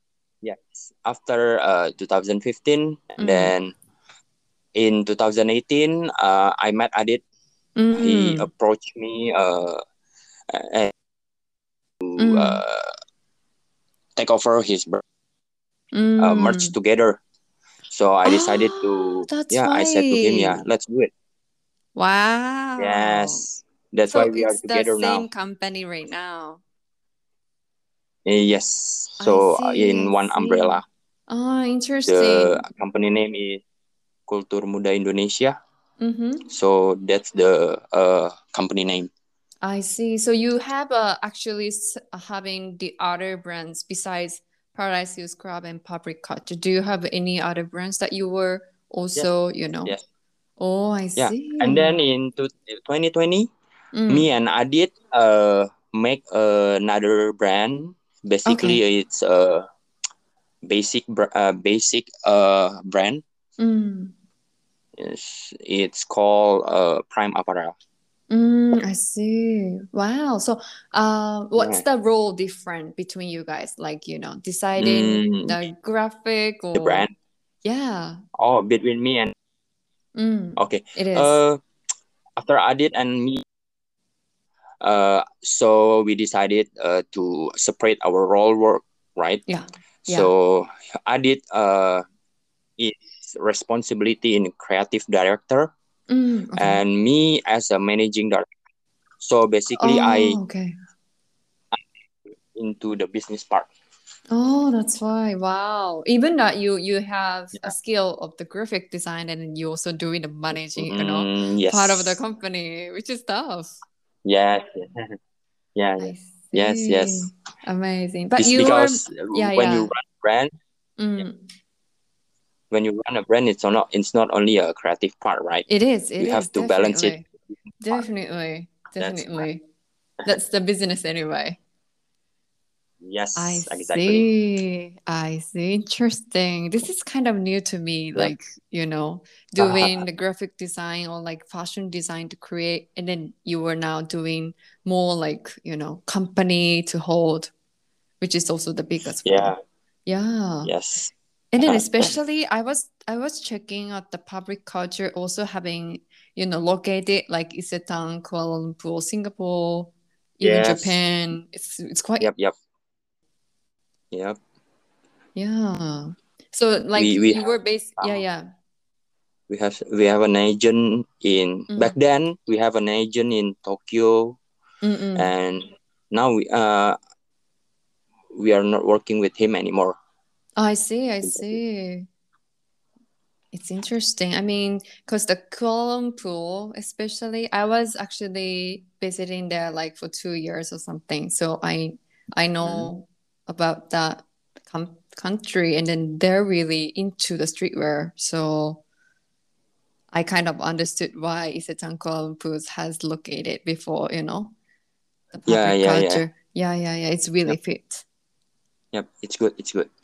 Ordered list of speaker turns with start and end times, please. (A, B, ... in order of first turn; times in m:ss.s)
0:00.4-0:03.8 A
0:03.2-0:03.6 B
0:04.8-0:07.2 A
0:07.8-0:08.5 B
0:08.0-0:09.8 A
0:10.5-0:10.9 A
0:12.0-0:12.9 A
0:12.2-0:12.6 B
0:14.2-0:15.0 A
0:15.9-0:16.7 B
0:16.2-0:17.2 A
0:17.9-0:21.1 A
0:18.2-0:20.6 B
0:22.0-0:23.5 B
0:22.8-0:25.3 A
0:24.1-0:26.6 B
0:28.3-0:30.8 A
0:29.2-0:32.6 B
0:32.1-0:33.6 A
0:34.3-0:35.6 A
0:36.0-0:36.5 B
0:36.5-0:39.1 A
0:39.6-0:49.9 B
0:50.6-0:52.0 B
0:51.2-0:53.5 A
0:53.9-0:54.3 B
0:54.1-0:59.7 A
0:58.5-0:58.8 B
1:00.6-1:03.2 A
1:03.6-1:04.1 B
1:05.0-1:07.8 A
1:08.3-1:17.1 B
1:11.6-1:11.8 A
1:14.8-1:15.6 A
1:16.7-1:17.1 A
1:17.6-1:18.2 B
1:18.4-1:19.3 A
1:20.2-1:21.3 B
1:20.6-1:21.6 A
1:22.4-1:23.4 A
1:24.8-1:29.4 A
1:29.5-1:30.3 B
1:30.1-1:32.0 A
1:32.8-1:35.7 A
1:36.1-1:36.8 B
1:36.6-1:38.5 A
1:39.2-1:40.4 A
1:39.8-1:40.8 B
1:42.5-1:43.7 A
1:44.3-1:53.7 B
1:50.8-1:52.2 A
1:54.2-1:55.1 A
1:55.8-1:57.3 A
1:56.0-1:59.9 B
1:58.4-2:00.5 A
2:01.0-2:01.4 B
2:02.7-2:05.6 A
2:05.7-2:07.3 B
2:06.2-2:07.2 A
2:07.8-2:09.6 B
2:09.0-2:09.4 A
2:10.2-2:11.6 B
2:13.0-2:14.3 A
2:13.4-2:27.5 B
2:19.6-2:20.0 A
2:28.2-2:29.6 B
2:29.2-2:29.6 A
2:30.1-2:30.7 B
2:30.6-2:31.1 A
2:31.5-2:42.3 B
2:31.6-2:32.1 A
2:40.4-2:41.0 A
2:42.2-2:42.5 A
2:44.1-2:44.4 A
2:45.4-2:48.5 B
2:47.0-2:48.2 A
2:49.5-2:54.4 A
2:51.7-2:52.0 B
2:54.8-2:55.3 B
2:55.2-2:57.0 A
2:58.3-3:00.0 A
3:00.6-3:02.1 B
3:01.2-3:01.6 A
3:03.5-3:18.8 B
3:12.6-3:12.9 A
3:20.1-3:24.5 B
3:25.3-3:28.0 B
3:25.5-3:26.2 A
3:28.9-3:29.9 A